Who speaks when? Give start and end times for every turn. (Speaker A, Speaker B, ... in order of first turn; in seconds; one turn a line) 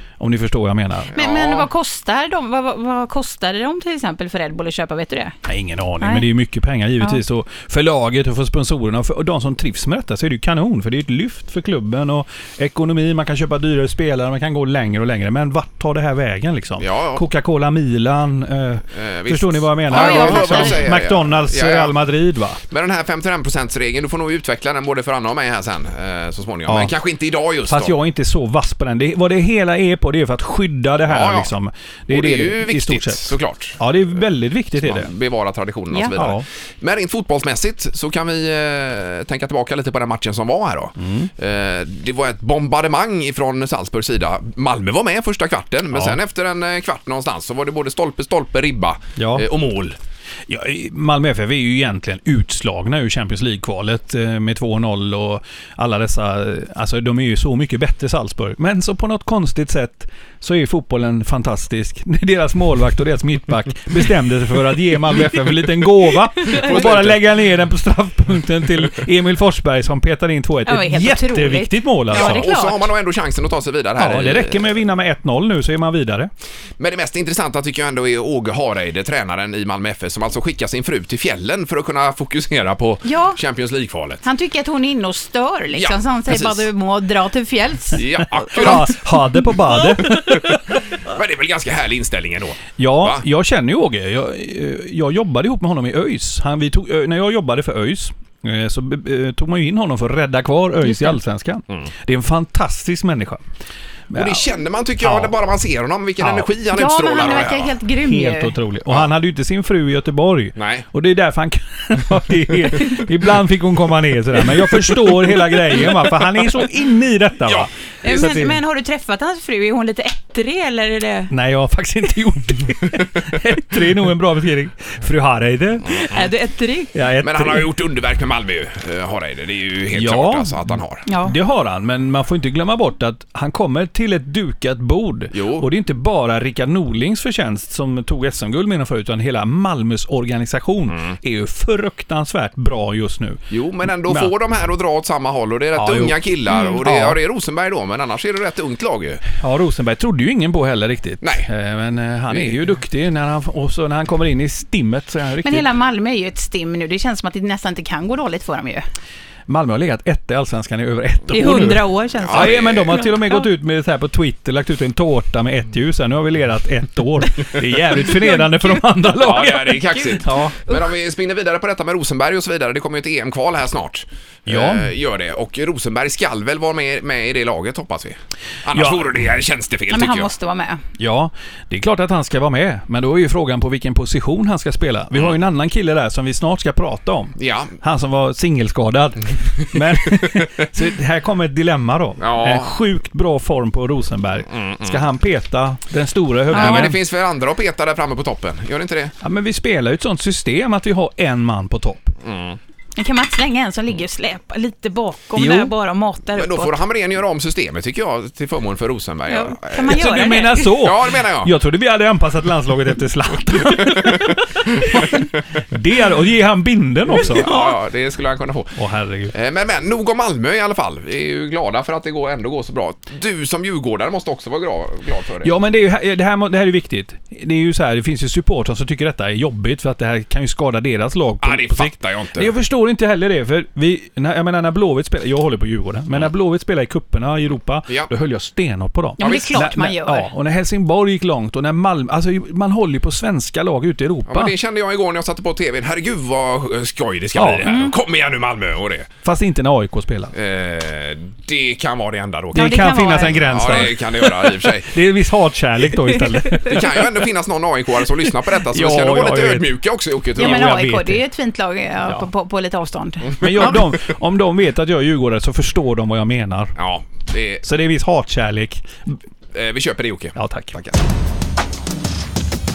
Speaker A: 0.2-1.1
Speaker B: 1.1-1.7
Speaker C: 1.1-5.3
Speaker A: 5.5-22.6
Speaker C: 6.0-6.2
Speaker B: 16.8-17.2
Speaker B: 18.9-21.9
Speaker C: 19.9-20.8
Speaker B: 22.7-27.9
Speaker A: 26.7-26.9
Speaker A: 27.6-35.1
Speaker B: 31.1-31.5
Speaker B: 32.1-33.8
Speaker B: 34.8-50.0
Speaker A: 36.1-36.4
Speaker A: 41.0-41.3
Speaker A: 45.9-46.2
Speaker A: 49.2-49.5
Speaker A: 50.5-72.5
Speaker B: 66.4-67.2
Speaker C: 70.7-72.8
Speaker B: 72.1-74.7
Speaker A: 74.0-76.3
Speaker B: 76.8-84.2
Speaker C: 83.0-83.4
Speaker C: 84.2-88.1
Speaker B: 85.7-86.7
Speaker B: 87.9-89.0
Speaker A: 88.5-90.6
Speaker C: 89.7-90.4
Speaker B: 90.0-93.2
Speaker A: 92.8-103.4
Speaker C: 100.8-101.2
Speaker A: 104.1-104.4
Speaker B: 104.1-107.7
Speaker A: 105.0-105.3
Speaker A: 106.2-106.5
Speaker C: 106.7-108.5
Speaker A: 108.0-118.6
Speaker B: 110.5-110.8
Speaker B: 117.4-118.4
Speaker C: 118.0-121.3
Speaker A: 121.3-126.0
Speaker B: 125.8-126.3
Speaker C: 126.1-126.9
Speaker A: 126.9-127.7
Speaker B: 127.2-131.1
Speaker A: 129.9-144.3
Speaker C: 131.1-131.3
Speaker B: 135.3-135.7
Speaker B: 140.9-141.1
Speaker B: 143.5-149.2
Speaker A: 145.7-146.2
Speaker C: 146.5-146.8
Speaker A: 146.8-147.2
Speaker A: 149.3-155.7
Speaker B: 151.2-151.5
Speaker B: 152.3-152.6
Speaker C: 155.4-158.8
Speaker A: 159.5-170.6
Speaker C: 161.3-163.4
Speaker B: 162.2-162.9
Speaker C: 168.1-168.8
Speaker B: 169.2-180.3
Speaker A: 174.4-174.9
Speaker A: 178.7-179.1
Speaker C: 179.9-180.8
Speaker A: 181.0-196.9
Speaker B: 187.3-187.8
Speaker B: 192.2-192.8
Speaker B: 194.5-195.0
Speaker C: 196.5-196.9
Speaker B: 196.5-199.1
Speaker A: 199.2-202.1
Speaker B: 202.2-202.6
Speaker C: 202.9-206.8
Speaker A: 205.3-205.7
Speaker B: 206.3-211.5
Speaker C: 209.3-210.8
Speaker A: 209.9-217.5
Speaker B: 213.9-214.2
Speaker B: 217.1-218.8
Speaker C: 217.3-217.8
Speaker A: 218.8-219.3
Speaker B: 219.3-225.5
Speaker A: 225.4-244.5
Speaker B: 231.4-232.5
Speaker C: 239.2-240.3
Speaker B: 239.2-239.6
Speaker B: 244.3-249.1
Speaker A: 247.3-247.7
Speaker C: 247.6-247.9
Speaker A: 249.2-250.3
Speaker B: 250.3-254.9
Speaker A: 252.5-257.0
Speaker C: 252.5-253.8
Speaker C: 256.5-256.8
Speaker B: 256.6-260.7
Speaker A: 258.5-259.7
Speaker A: 260.4-261.2
Speaker C: 260.4-263.7
Speaker B: 263.3-263.7
Speaker A: 263.4-266.8
Speaker B: 266.8-267.6
Speaker A: 267.6-269.2
Speaker B: 269.5-271.0
Speaker A: 270.4-270.7